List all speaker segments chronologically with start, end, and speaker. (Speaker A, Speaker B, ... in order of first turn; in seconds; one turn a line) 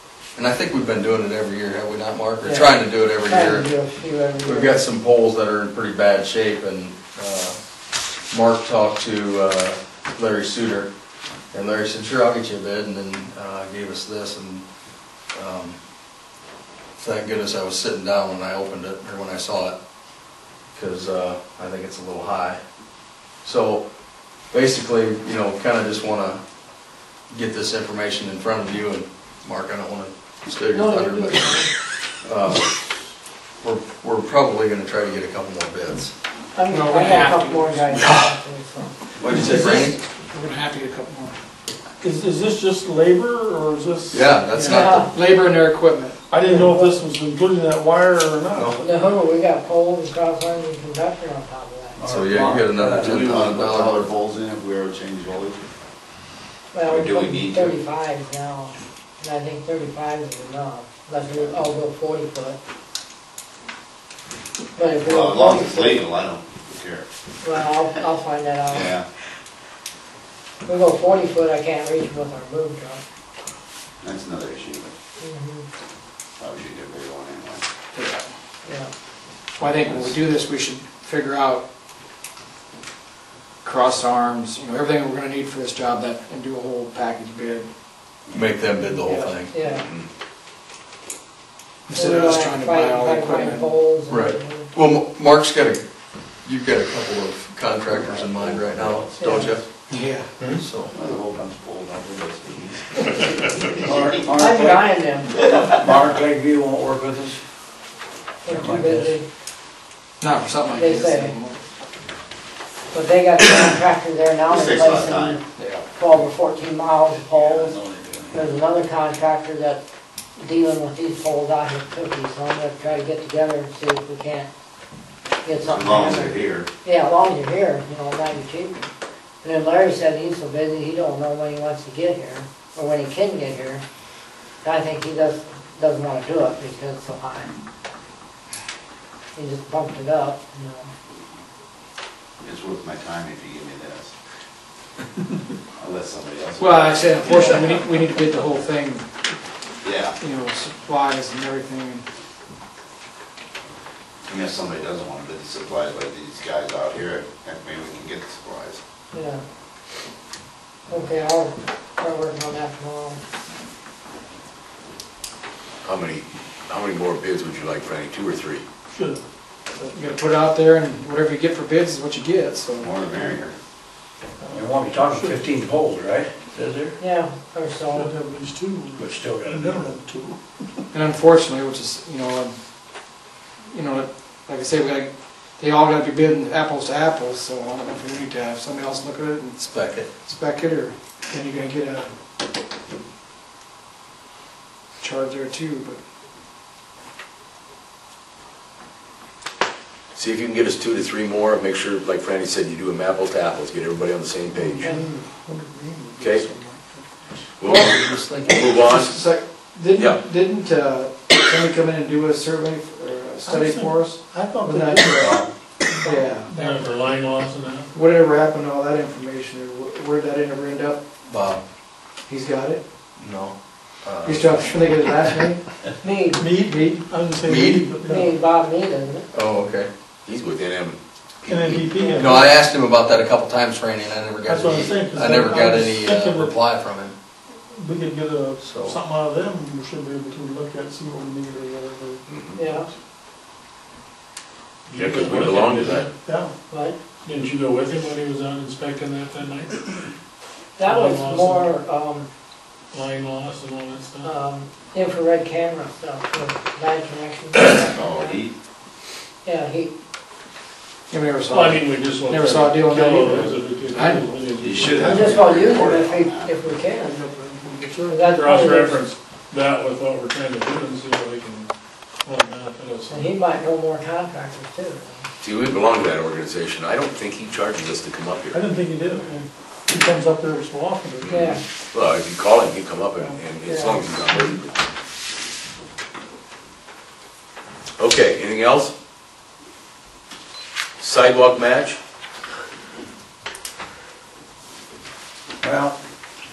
Speaker A: 0.3-3.7
Speaker B: 2.4-4.8
Speaker A: 4.4-7.6
Speaker A: 8.3-10.9
Speaker A: 11.5-14.6
Speaker A: 15.3-15.8
Speaker A: 17.0-19.8
Speaker A: 20.7-22.6
Speaker A: 23.4-23.8
Speaker A: 24.5-26.4
Speaker A: 27.3-31.6
Speaker B: 30.7-31.7
Speaker A: 32.2-32.8
Speaker A: 33.6-36.1
Speaker B: 36.5-38.9
Speaker C: 36.6-38.1
Speaker A: 39.2-40.0
Speaker C: 39.3-41.4
Speaker D: 42.0-44.3
Speaker A: 44.1-45.0
Speaker C: 44.5-46.2
Speaker B: 44.6-45.1
Speaker D: 46.3-48.8
Speaker B: 46.5-46.9
Speaker B: 48.8-52.0
Speaker E: 51.9-53.5
Speaker A: 52.1-54.1
Speaker F: 53.0-55.6
Speaker B: 56.7-62.6
Speaker F: 56.8-57.8
Speaker B: 64.7-66.0
Speaker F: 65.0-67.1
Speaker B: 67.4-68.9
Speaker F: 68.7-69.0
Speaker B: 70.7-73.0
Speaker F: 74.0-74.9
Speaker B: 75.2-75.7
Speaker F: 76.4-77.6
Speaker C: 77.9-78.3
Speaker B: 78.6-78.9
Speaker C: 79.6-81.6
Speaker F: 79.8-80.1
Speaker C: 83.6-87.7
Speaker A: 88.3-89.5
Speaker C: 88.8-89.3
Speaker B: 89.5-89.9
Speaker C: 91.9-93.7
Speaker B: 91.9-94.7
Speaker A: 94.1-95.8
Speaker A: 96.4-99.6
Speaker F: 97.9-99.4
Speaker B: 99.2-99.6
Speaker C: 99.9-100.4
Speaker A: 100.4-100.9
Speaker F: 100.9-104.4
Speaker E: 103.8-104.9
Speaker B: 104.3-105.5
Speaker E: 105.4-107.4
Speaker B: 108.4-109.2
Speaker E: 108.5-109.2
Speaker C: 110.2-111.6
Speaker B: 110.8-111.3
Speaker B: 112.9-115.4
Speaker F: 114.5-115.4
Speaker B: 115.9-117.8
Speaker F: 117.2-118.4
Speaker B: 118.3-119.8
Speaker B: 120.4-124.5
Speaker B: 125.4-128.8
Speaker F: 125.6-126.7
Speaker B: 129.4-133.8
Speaker B: 134.6-137.5
Speaker B: 139.3-140.9
Speaker F: 142.4-144.1
Speaker F: 145.8-147.8
Speaker C: 146.6-149.0
Speaker B: 147.3-147.6
Speaker F: 149.8-150.2
Speaker C: 150.2-152.0
Speaker F: 154.2-158.8
Speaker B: 159.1-159.4
Speaker B: 160.9-163.2
Speaker G: 165.8-168.6
Speaker D: 168.9-169.2
Speaker C: 169.9-173.0
Speaker F: 172.8-173.5
Speaker D: 173.1-173.3
Speaker D: 174.4-175.4
Speaker E: 174.5-177.0
Speaker B: 177.0-178.1
Speaker D: 177.9-180.4
Speaker E: 178.9-179.9
Speaker C: 180.9-182.5
Speaker C: 183.7-192.1
Speaker A: 189.7-190.1
Speaker C: 195.0-196.0
Speaker G: 200.1-204.9
Speaker D: 204.6-207.4
Speaker G: 206.2-206.4
Speaker G: 207.6-209.2
Speaker C: 207.7-215.3
Speaker G: 209.9-210.2
Speaker D: 213.4-216.7
Speaker C: 216.0-216.9
Speaker H: 216.6-217.9
Speaker C: 217.9-221.0
Speaker A: 221.3-221.6
Speaker C: 222.3-222.8
Speaker A: 223.2-224.5
Speaker C: 224.2-225.6
Speaker B: 226.0-226.5
Speaker D: 226.3-228.3
Speaker C: 226.4-227.0
Speaker A: 227.4-227.9
Speaker B: 228.0-229.3
Speaker A: 229.3-229.9
Speaker G: 230.2-231.0
Speaker D: 231.4-232.5
Speaker A: 231.5-237.1
Speaker D: 234.4-236.6
Speaker D: 237.7-242.9
Speaker A: 238.6-239.0
Speaker G: 242.3-242.6
Speaker B: 242.6-242.9
Speaker H: 244.9-246.1
Speaker G: 244.9-246.1
Speaker D: 246.2-246.5
Speaker B: 246.7-247.0
Speaker H: 247.2-249.8
Speaker B: 250.8-252.3
Speaker H: 250.8-251.7
Speaker H: 252.9-254.3
Speaker B: 254.2-258.4
Speaker F: 257.9-258.5
Speaker B: 259.4-259.9
Speaker C: 261.1-264.3
Speaker H: 261.5-265.4
Speaker F: 264.6-266.6
Speaker B: 265.0-267.2
Speaker D: 266.9-268.7
Speaker B: 268.1-269.0
Speaker H: 268.4-271.7
Speaker H: 272.2-273.4
Speaker B: 273.1-275.3
Speaker G: 275.4-278.6
Speaker D: 278.5-281.5
Speaker G: 281.2-284.7
Speaker B: 281.3-281.6
Speaker B: 283.6-284.0
Speaker G: 288.0-288.9
Speaker G: 291.0-292.0
Speaker E: 295.6-295.9